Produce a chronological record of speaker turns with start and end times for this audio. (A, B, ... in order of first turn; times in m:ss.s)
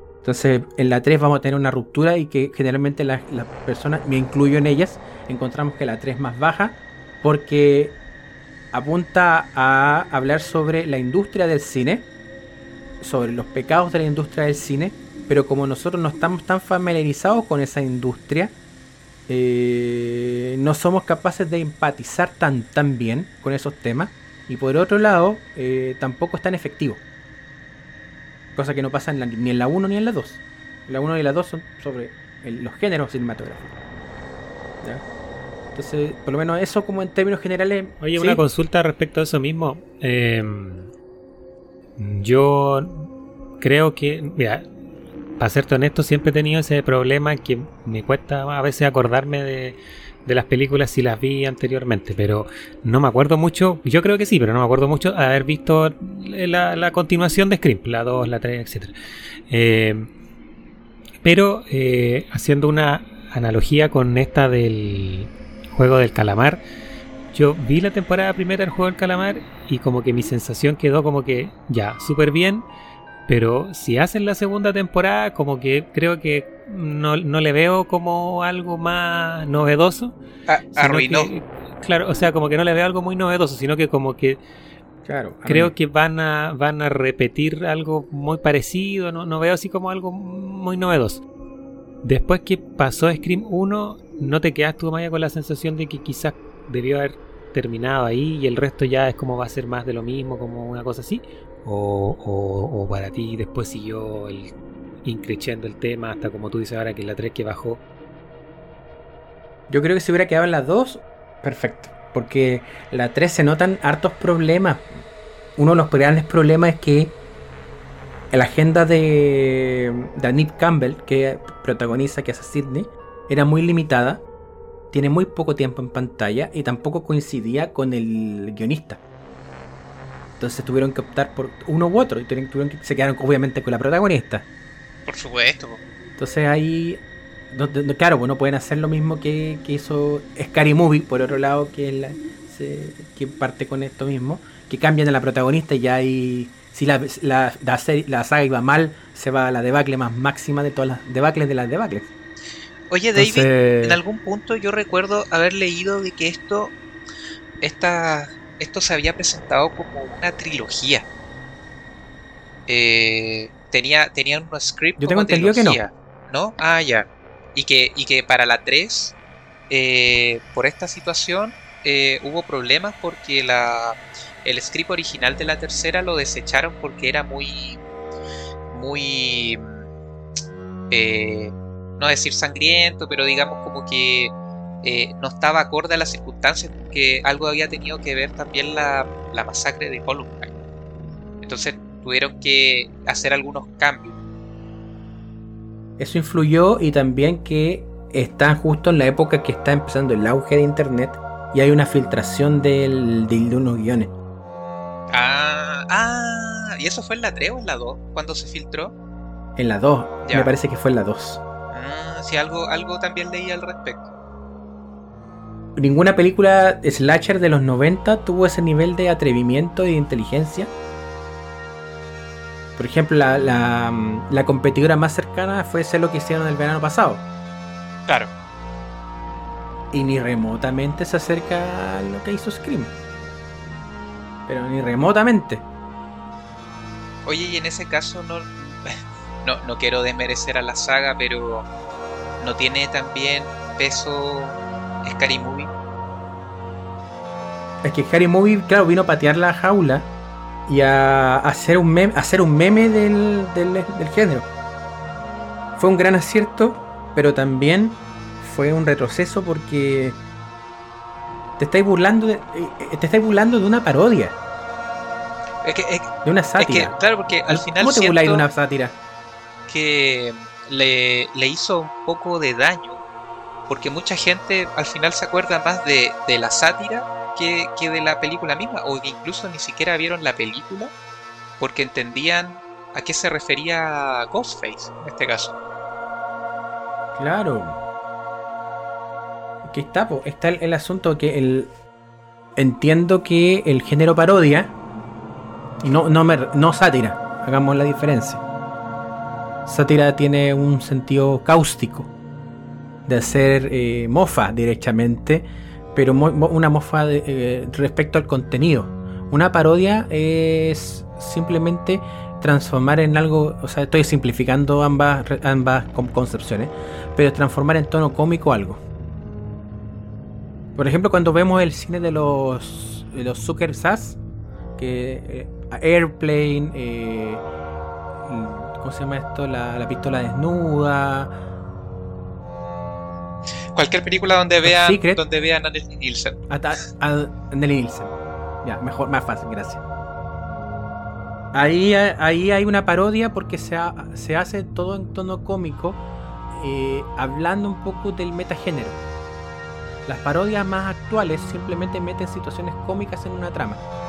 0:00.2-0:08.0 A
0:08.7-0:12.1 A
0:13.0-0:18.5 A
0:19.3-0:27.0 A
0:28.6-0:33.7 A
0:35.7-0:38.4 A
0:38.0-0:40.9 B
0:42.0-0:43.1 B
0:43.6-0:44.7 B
0:45.4-0:58.9 B
0:59.5-1:00.1 B
1:01.2-1:06.6 B
1:07.3-1:12.6 B
1:13.3-1:20.2 B
1:20.5-1:21.3 C
1:20.8-1:24.4 B
1:25.0-1:25.7 A
1:25.5-1:31.2 B
1:32.0-1:47.8 B
1:49.7-1:54.9 A
1:55.6-1:57.1 A
1:58.3-2:04.2 A
2:04.9-2:09.0 A
2:10.4-2:14.4 A
2:15.0-2:15.8 C
2:16.2-2:32.1 A
2:32.9-2:36.7 C
2:33.2-2:34.0 A
2:37.6-2:41.0 C
2:42.7-2:49.1 C
2:45.0-2:45.8 A
2:49.7-2:57.8 C
2:58.7-2:59.8 C
3:00.9-3:10.5 C
3:11.4-3:14.2 C
3:16.0-3:24.1 A
3:25.1-3:28.9 C
3:29.6-3:31.4 A
3:30.2-3:30.5 C
3:31.7-3:34.1 C
3:35.8-3:40.7 A
3:42.8-3:47.2 A
3:49.9-3:52.9 A
3:54.5-3:55.6 A
3:57.2-4:01.7 C
4:02.4-4:05.7 C
4:07.8-4:10.1 A
4:10.7-4:14.5 A
4:15.8-4:20.2 A
4:21.6-4:24.4 A
4:25.6-4:28.5 C
4:26.2-4:27.0 A
4:27.5-4:29.0 A
4:29.7-4:33.0 C
4:33.7-4:40.9 C
4:41.6-4:45.5 C
4:47.2-4:47.8 A
4:49.6-4:51.7 A
4:52.6-4:54.7 A
4:55.8-4:58.4 A
4:59.6-5:02.1 A
5:03.0-5:18.8 A
5:20.8-5:24.2 A
5:24.8-5:27.4 A
5:28.2-5:31.3 A
5:33.7-5:36.4 C
5:34.6-5:35.2 A
5:36.5-5:38.1 A
5:38.6-5:39.8 A
5:41.5-5:46.0 A
5:46.5-5:49.0 A
5:50.0-5:53.8 A